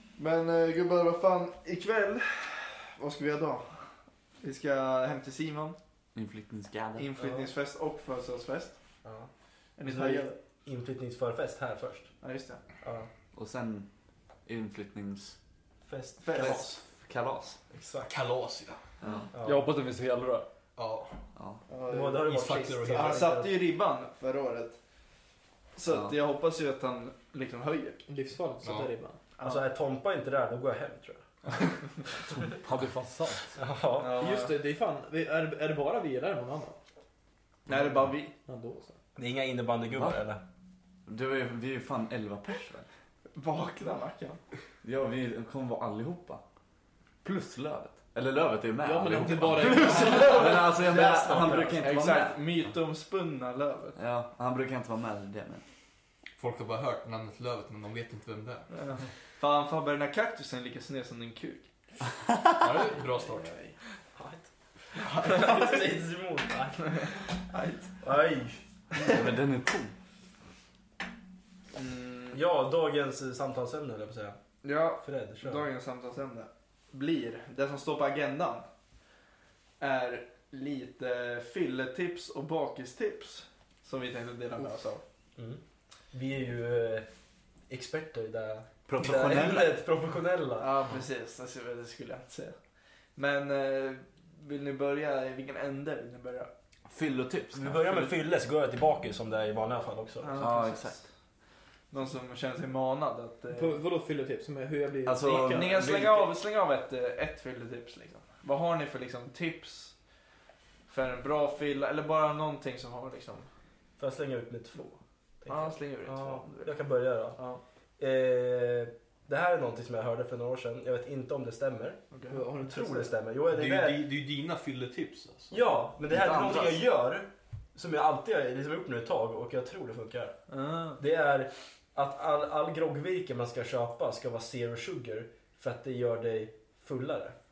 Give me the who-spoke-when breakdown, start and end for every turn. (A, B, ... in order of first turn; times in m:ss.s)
0:00.2-0:03.9 A
0:04.4-0:05.8 A
0:06.2-0:07.1 B
0:07.0-0:08.8 A
0:07.2-0:07.5 C
0:09.8-0:10.4 A
0:09.8-0:12.1 C
0:12.2-0:12.6 A
0:12.8-0:13.1 C
0:13.4-0:13.9 B
0:14.5-0:15.4 B
0:15.9-0:16.8 C
0:16.2-0:16.8 A
0:16.4-0:17.6 B
0:17.7-0:18.1 C
0:18.1-0:18.8 D
0:19.0-0:19.3 B
0:19.3-0:19.7 C
0:19.4-0:20.5 E
0:20.8-0:21.1 D
0:21.4-0:21.6 B
0:21.7-0:24.8 A
0:21.9-0:23.6 C
0:22.2-0:23.3 D
0:25.8-0:28.0 A
0:25.9-0:26.2 B
0:28.1-0:29.2 F
0:28.6-0:28.9 D
0:29.4-0:29.7 A
0:29.4-0:31.3 C
0:32.4-0:33.6 E
0:33.6-0:34.2 C
0:34.0-0:34.6 A
0:34.1-0:36.8 F
0:37.7-0:38.3 A
0:38.4-0:39.0 F
0:39.2-0:40.4 C
0:39.9-0:40.2 B
0:41.1-0:42.9 B
0:43.3-0:44.4 A
0:44.8-0:46.4 B
0:47.2-0:52.4 B
0:48.8-0:51.8 F
0:49.8-0:54.0 A
0:51.1-0:51.8 C
0:54.0-0:55.6 B
0:56.4-0:58.7 D
0:58.7-1:01.7 A
1:02.6-1:03.5 D
1:03.2-1:03.7 A
1:04.2-1:07.0 C
1:05.0-1:05.9 A
1:06.8-1:08.0 A
1:08.0-1:08.6 C
1:09.0-1:09.9 B
1:11.7-1:12.4 A
1:12.3-1:14.4 C
1:14.6-1:18.6 A
1:15.0-1:15.6 C
1:19.8-1:25.0 A
1:25.4-1:25.6 C
1:26.1-1:27.1 C
1:27.7-1:30.9 C
1:28.9-1:29.7 B
1:30.6-1:32.6 A
1:33.2-1:36.5 A
1:36.9-1:38.2 B
1:37.5-1:40.3 C
1:40.2-1:41.0 A
1:40.4-1:41.0 B
1:41.9-1:43.8 A
1:43.5-1:46.0 F
1:45.1-1:46.3 B
1:45.2-1:49.9 A
1:50.9-1:53.5 A
1:54.0-1:57.4 C
1:55.5-1:56.8 A
1:57.4-1:57.6 A
1:58.0-2:02.0 C
2:02.1-2:02.4 A
2:02.3-2:03.1 F
2:02.6-2:04.1 C
2:03.5-2:05.6 D
2:05.5-2:10.4 C
2:06.1-2:06.8 B
2:11.0-2:17.4 C